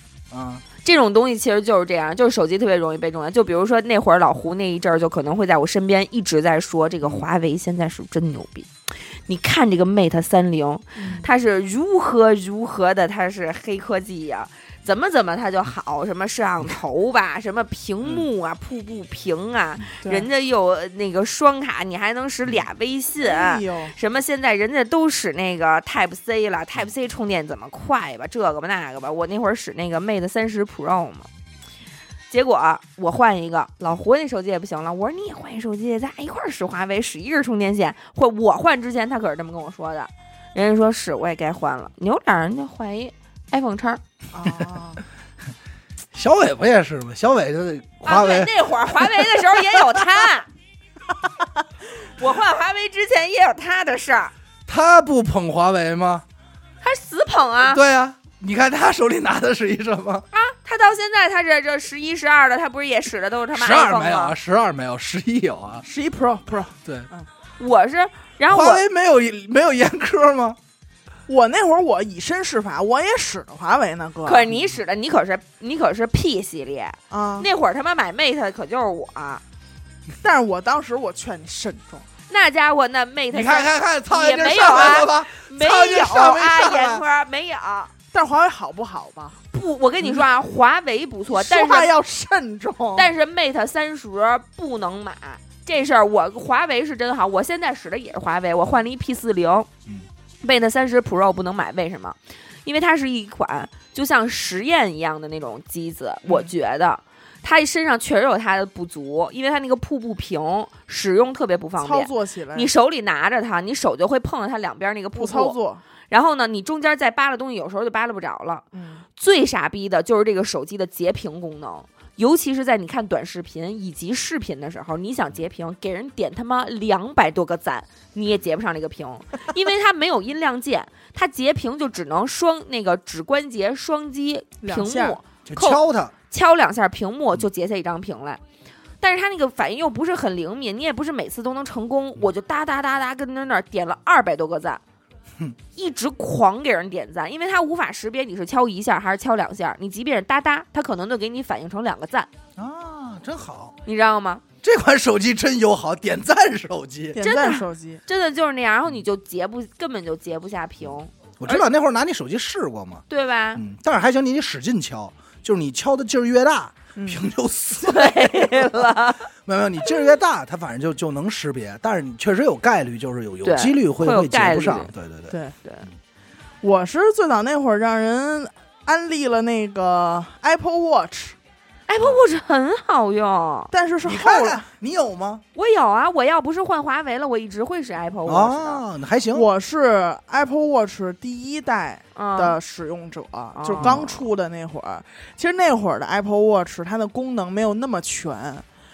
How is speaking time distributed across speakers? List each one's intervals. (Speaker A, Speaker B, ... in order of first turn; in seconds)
Speaker A: 0.3-0.6, 46.1-49.0, 54.7-56.2, 57.7-60.2, 63.5-65.8, 68.5-70.6, 83.3-87.0, 135.4-136.1, 152.6-153.8, 154.6-157.2, 161.4-168.7, 169.4-175.4, 184.0-185.4, 188.2-189.5, 193.8-194.1
Speaker B: 0.8-31.3, 32.3-44.0, 48.0-50.5, 52.2-54.3, 56.8-57.8, 60.3-64.3, 67.6-68.8, 74.2-79.4, 82.3-87.9, 89.5-91.9, 93.0-99.7, 100.4-115.6, 116.1-118.6, 119.2-138.4, 139.0-144.8, 145.7-152.3, 153.8-154.4, 157.2-161.7, 163.1-163.6, 167.8-169.3, 173.4-174.9, 181.9-183.7, 185.5-188.8, 192.2-192.6, 193.5-194.2
Speaker C: 11.0-11.3, 20.0-20.3, 23.2-23.9, 44.3-45.0, 65.8-67.3, 71.3-74.5, 77.1-77.5, 80.2-82.0, 88.1-89.4, 91.3-93.1, 106.2-106.5, 111.8-112.7, 115.1-115.8, 118.7-119.0, 134.6-135.2, 157.1-158.0, 166.9-167.2, 175.3-175.5, 176.6-181.3, 183.7-184.7, 189.3-198.6